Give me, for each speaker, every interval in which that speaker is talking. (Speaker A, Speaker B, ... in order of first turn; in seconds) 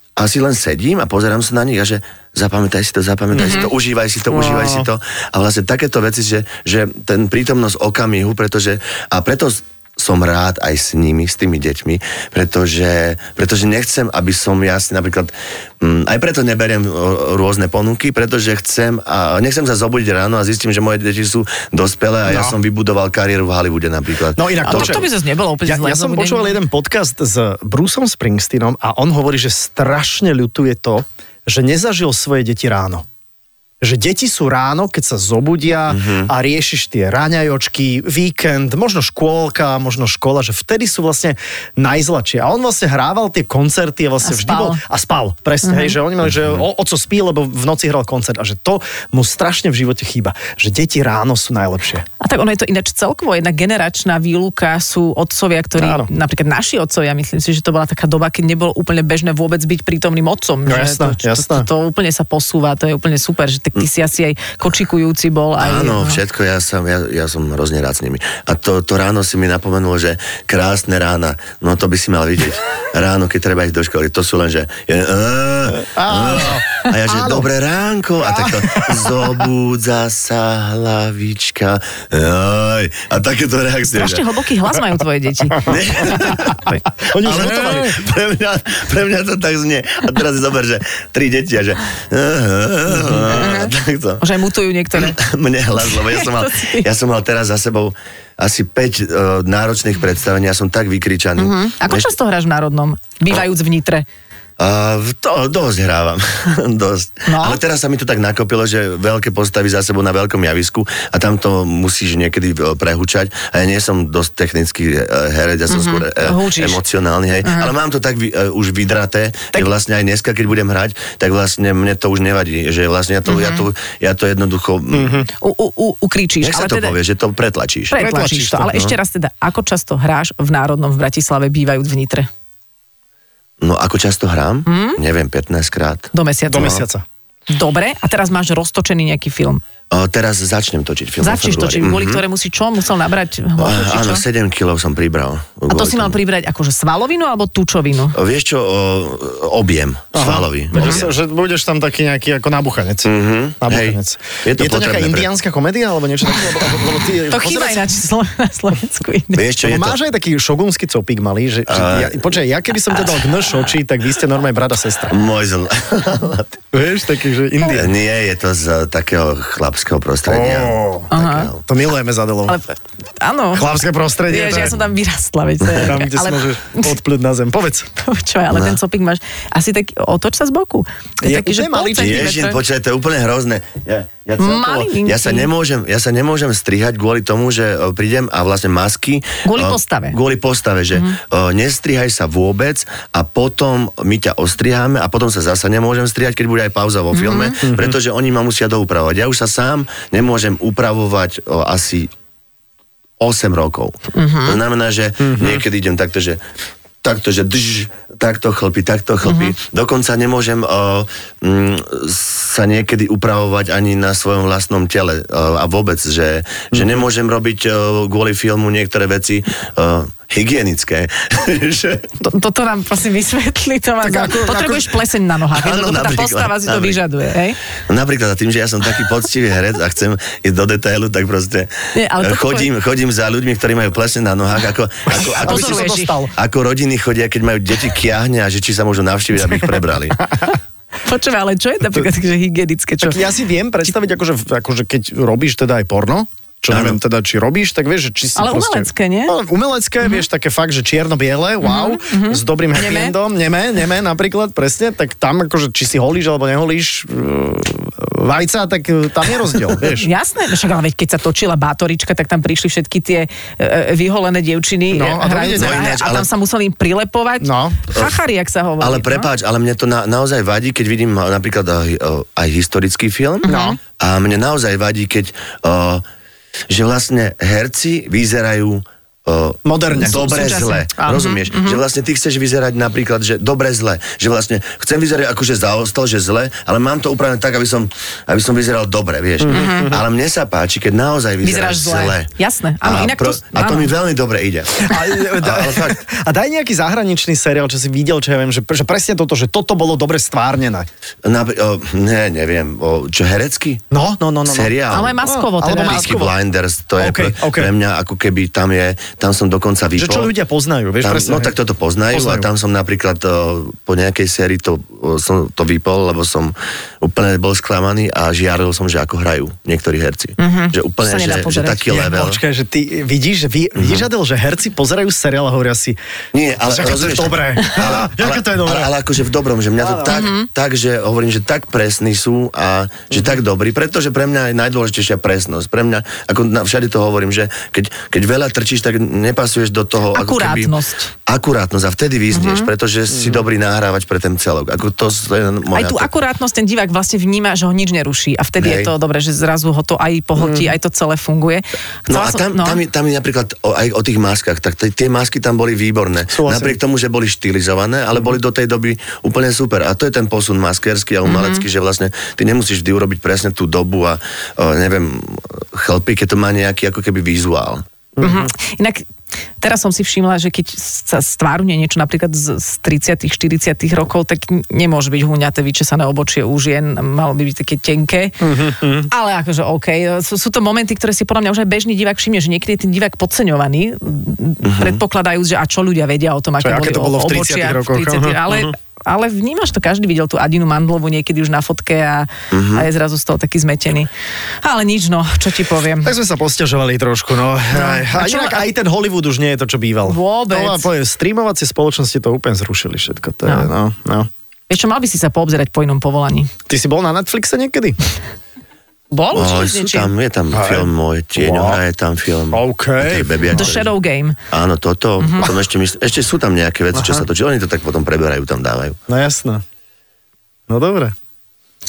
Speaker A: 0.2-25.0, 35.9-36.3, 65.6-84.2, 85.6-86.6, 87.1-94.2, 95.0-102.1, 104.6-125.2, 126.4-128.0, 133.6-136.1, 139.9-142.2, 143.6-146.2, 148.1-151.1, 153.0-155.3, 159.3-160.0, 161.7-162.2, 165.1-166.6, 167.7-171.6, 178.5-178.8, 181.9-202.1, 203.2-206.4, 207.0-222.1, 225.5-227.0, 227.9-240.2, 246.7-247.0, 265.6-266.3, 268.8-276.0, 276.7-292.3, 292.8-296.0, 301.2-303.8, 304.4-305.2, 305.7-310.3, 311.0-322.4, 323.8-324.1, 326.3-340.7, 341.2-346.1, 348.6-348.9, 352.1-367.8, 384.6-385.0, 392.5-392.9, 409.3-413.9, 414.5-419.0
Speaker B: 3.3-3.6, 4.3-4.8, 22.3-22.6, 24.4-25.1, 25.6-33.0, 33.8-52.0, 55.8-56.1, 60.6-61.7, 75.9-77.5, 78.3-78.9, 87.0-88.0, 92.9-93.5, 124.9-125.3, 128.0-128.8, 136.5-137.0, 150.1-153.1, 153.6-157.8, 159.6-165.2, 166.7-167.9, 170.2-171.1, 171.7-172.6, 173.5-174.9, 175.7-177.9, 181.2-182.4, 197.7-197.9, 205.2-205.5, 224.0-224.9, 235.1-236.3, 243.0-260.1, 264.9-265.8, 267.4-267.8, 273.5-273.8, 279.6-280.2, 289.4-290.0, 294.8-300.9, 303.9-306.3, 307.0-307.7, 310.0-311.5, 312.1-312.5, 321.9-326.0, 326.7-328.9, 329.8-330.1, 350.4-350.7, 356.3-356.8, 368.2-368.4, 378.4-379.1, 386.6-388.7, 396.0-404.3, 406.7-408.0, 410.5-411.8, 412.5-413.8, 416.9-417.2, 419.1-419.6, 420.7-421.1
Speaker C: 3.4-3.7, 24.6-26.6, 44.2-44.8, 45.6-46.0, 52.2-66.2, 84.0-86.8, 93.3-95.2, 95.9-96.8, 101.4-104.0, 107.3-107.6, 115.7-116.8, 117.4-117.7, 123.3-123.7, 125.4-126.9, 127.9-132.3, 134.7-135.0, 136.1-136.8, 137.5-139.6, 141.2-144.2, 145.7-148.2, 150.8-151.0, 157.3-159.4, 171.1-171.5, 172.5-173.6, 174.3-177.0, 177.9-182.6, 184.4-185.5, 189.4-190.2, 197.1-197.6, 204.1-204.6, 209.2-209.5, 222.2-227.6, 231.9-232.7, 235.2-236.1, 241.0-243.2, 248.3-249.3, 251.6-253.1, 259.9-269.3, 273.4-273.8, 279.9-281.8, 289.5-290.0, 291.4-293.9, 304.9-306.1, 320.4-322.1, 330.1-330.5, 340.1-341.1, 342.3-342.7, 345.7-352.8, 361.2-361.6, 368.2-369.1, 369.6-394.1, 394.6-396.1, 397.7-398.6, 400.0-400.9, 404.7-406.5, 409.1-410.1, 413.5-414.4, 415.2-415.5